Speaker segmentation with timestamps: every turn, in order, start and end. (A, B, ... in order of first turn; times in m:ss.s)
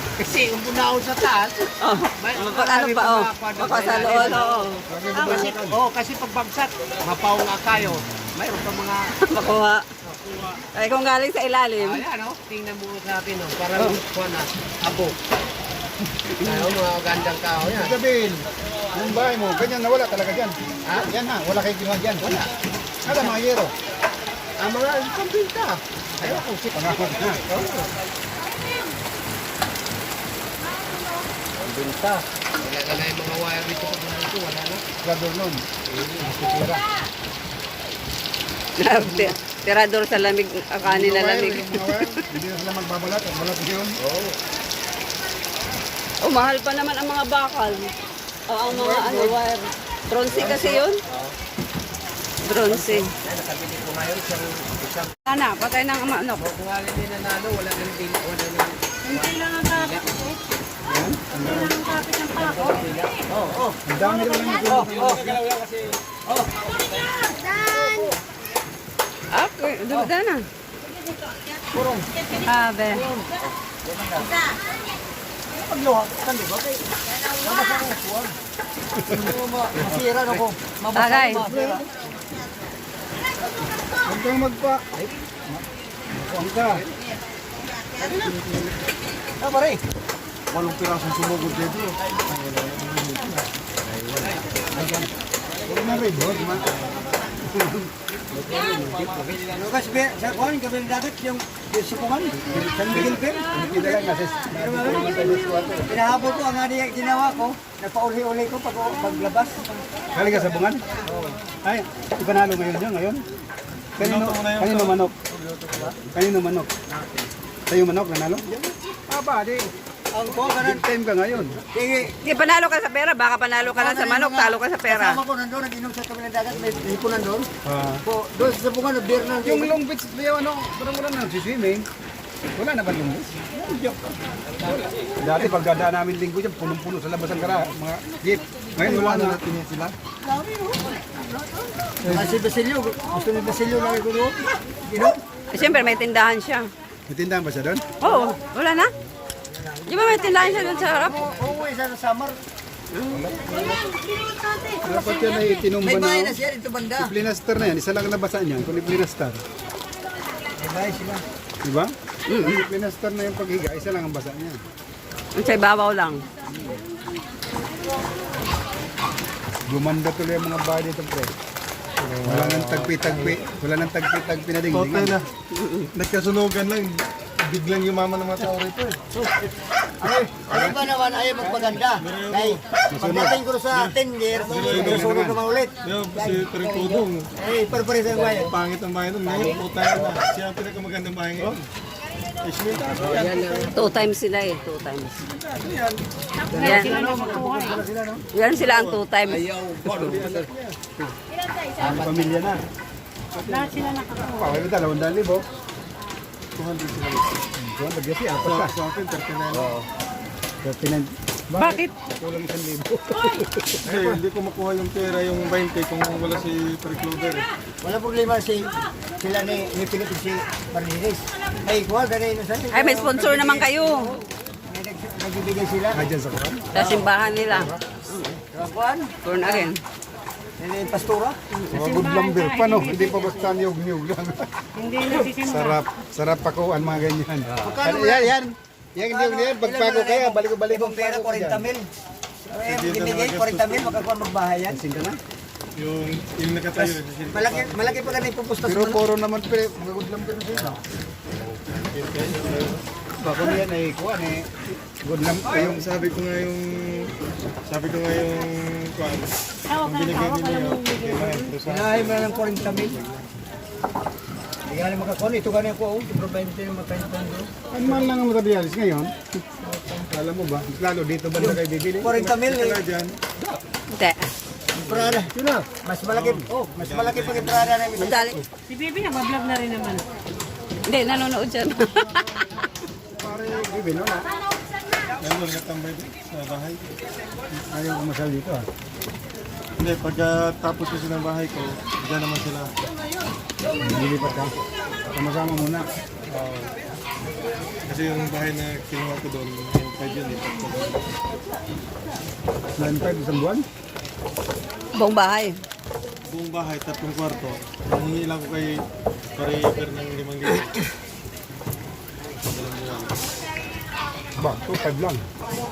0:00.2-0:01.6 A
0:01.8-0:05.5 B
0:02.2-0:09.1 A
0:04.9-0:05.8 C
0:07.8-0:08.0 C
0:09.2-0:09.8 B
0:10.0-0:10.6 A
0:10.7-0:12.0 B
0:11.8-0:15.1 A
0:16.3-0:16.7 C
0:16.4-0:18.0 A
0:17.6-0:22.4 C
0:20.8-0:21.1 A
0:22.2-0:22.5 A
0:23.0-0:23.7 C
0:23.0-0:23.4 A
0:24.6-0:27.9 A
0:26.2-0:27.4 C
0:31.6-0:34.8 A
0:35.0-0:35.6 C
0:35.9-0:36.4 A
0:36.2-0:36.8 C
0:38.8-0:42.0 B
0:40.8-0:44.0 C
0:44.0-0:44.4 A
0:46.2-0:47.9 B
0:48.5-0:51.0 B
0:48.7-0:49.4 C
0:50.3-0:51.3 A
0:50.4-0:50.7 C
0:52.4-0:53.1 B
0:52.8-0:55.1 A
0:55.3-0:56.4 B
0:56.4-1:00.0 A
0:59.0-1:00.4 D
1:00.9-1:01.7 C
1:01.3-1:03.1 D
1:02.4-1:03.6 A
1:03.4-1:03.8 E
1:03.8-1:05.5 C
1:04.2-1:04.8 D
1:04.6-1:05.3 E
1:06.2-1:06.5 E
1:07.8-1:08.0 A
1:09.3-1:10.4 B
1:11.7-1:12.1 E
1:12.4-1:13.1 B
1:13.8-1:14.5 E
1:15.5-1:18.4 E
1:19.0-1:21.9 E
1:20.9-1:21.4 B
1:21.4-1:21.8 C
1:24.0-1:24.9 C
1:26.1-1:26.8 C
1:28.0-1:28.3 E
1:28.1-1:28.7 C
1:29.4-1:29.8 E
1:30.5-1:33.5 F
1:34.7-1:35.1 C
1:35.7-1:36.6 C
1:37.4-1:37.9 C
1:38.4-1:39.2 C
1:39.0-1:39.4 F
1:39.2-1:43.8 E
1:42.5-1:45.9 C
1:43.2-1:43.9 D
1:44.5-1:49.8 E
1:44.8-1:46.1 D
1:50.1-1:50.8 C
1:51.6-1:53.2 C
1:54.0-1:55.1 F
1:54.0-1:55.1 C
1:55.3-1:55.9 E
1:56.1-1:56.7 C
1:57.7-1:58.5 C
1:59.1-1:59.7 C
2:00.1-2:00.8 E
2:00.5-2:01.6 C
2:01.7-2:02.1 E
2:02.2-2:05.2 B
2:03.7-2:07.5 E
2:07.6-2:08.0 C
2:08.0-2:09.8 E
2:09.4-2:11.8 C
2:12.6-2:13.3 C
2:13.5-2:14.1 E
2:15.2-2:19.9 C
2:18.8-2:19.4 E
2:20.2-2:25.2 E
2:22.0-2:22.4 C
2:25.5-2:26.6 B
2:27.1-2:27.9 C
2:28.0-2:28.9 B
2:29.5-2:32.4 E
2:29.9-2:31.4 B
2:32.9-2:33.3 B
2:33.1-2:33.7 C
2:33.6-2:35.6 D
2:34.8-2:36.4 C
2:35.8-2:37.1 E
2:37.0-2:39.4 C
2:40.6-2:41.2 E
2:41.6-2:44.6 C
2:42.3-2:42.6 B
2:45.4-2:46.2 B
2:46.5-2:46.8 C
2:49.7-2:51.3 C
2:52.0-2:53.4 F
2:52.2-2:55.1 C
2:54.7-2:55.3 F
2:55.5-2:55.9 B
2:55.9-2:58.7 F
3:00.0-3:08.5 E
3:00.5-3:00.8 C
3:01.4-3:01.8 C
3:01.6-3:07.3 F
3:02.9-3:03.4 C
3:04.4-3:04.8 A
3:04.5-3:05.4 C
3:08.1-3:08.5 A
3:08.4-3:11.6 F
3:09.2-3:10.2 A
3:11.4-3:11.6 C
3:12.4-3:13.7 F
3:12.9-3:13.9 A
3:13.7-3:15.2 B
3:15.2-3:16.0 F
3:16.5-3:18.2 C
3:16.6-3:17.8 D
3:16.6-3:17.0 B
3:18.3-3:19.5 B
3:18.4-3:19.0 F
3:19.2-3:20.5 A
3:19.8-3:20.8 F
3:21.8-3:22.5 A
3:21.8-3:22.6 C
3:23.4-3:23.7 F
3:23.4-3:24.6 D
3:24.2-3:25.4 C
3:26.5-3:27.4 F
3:27.6-3:28.7 C
3:28.3-3:29.8 F
3:30.6-3:33.8 C
3:31.6-3:31.9 B
3:33.8-3:37.5 F
3:33.8-3:34.2 E
3:37.8-3:43.8 E
3:42.7-3:44.2 B
3:44.7-3:46.0 E
3:45.9-3:46.8 C
3:46.7-3:48.4 B
3:46.7-3:47.1 E
3:47.5-3:47.8 C
3:48.5-3:49.7 E
3:49.2-3:49.8 B
3:50.6-3:51.4 E
3:51.7-3:54.5 C
3:51.7-3:53.5 D
3:54.8-3:55.8 D
3:55.3-4:01.7 C
3:57.6-3:58.3 E
3:59.0-4:01.9 E
4:02.5-4:04.8 E
4:02.6-4:04.0 F
4:04.7-4:05.2 C
4:05.8-4:08.2 F
4:07.3-4:09.0 E
4:08.6-4:10.8 C
4:11.3-4:11.6 A
4:11.7-4:12.8 F
4:13.2-4:14.5 C
4:15.0-4:15.8 C
4:15.4-4:17.1 F
4:17.6-4:23.2 F
4:19.7-4:21.6 D
4:21.6-4:23.0 E
4:24.7-4:27.5 E
4:27.7-4:29.4 C
4:29.7-4:30.0 E
4:30.1-4:32.2 C
4:31.4-4:32.8 E
4:32.1-4:33.2 F
4:33.9-4:34.2 B
4:34.7-4:38.4 E
4:34.8-4:35.3 F
4:36.1-4:37.9 F
4:37.9-4:38.4 B
4:38.7-4:40.0 D
4:40.9-4:42.3 B
4:43.2-4:44.3 C
4:45.2-4:46.9 F
4:47.7-4:48.6 C
4:49.8-4:52.7 F
4:53.8-4:54.5 C
4:53.8-4:54.5 F
4:55.1-4:55.9 C
4:56.3-4:56.8 F
4:57.8-5:01.0 F
5:02.8-5:03.6 C
5:05.0-5:05.6 B
5:06.3-5:08.8 F
5:09.4-5:10.8 F
5:12.4-5:13.3 F
5:14.4-5:15.2 C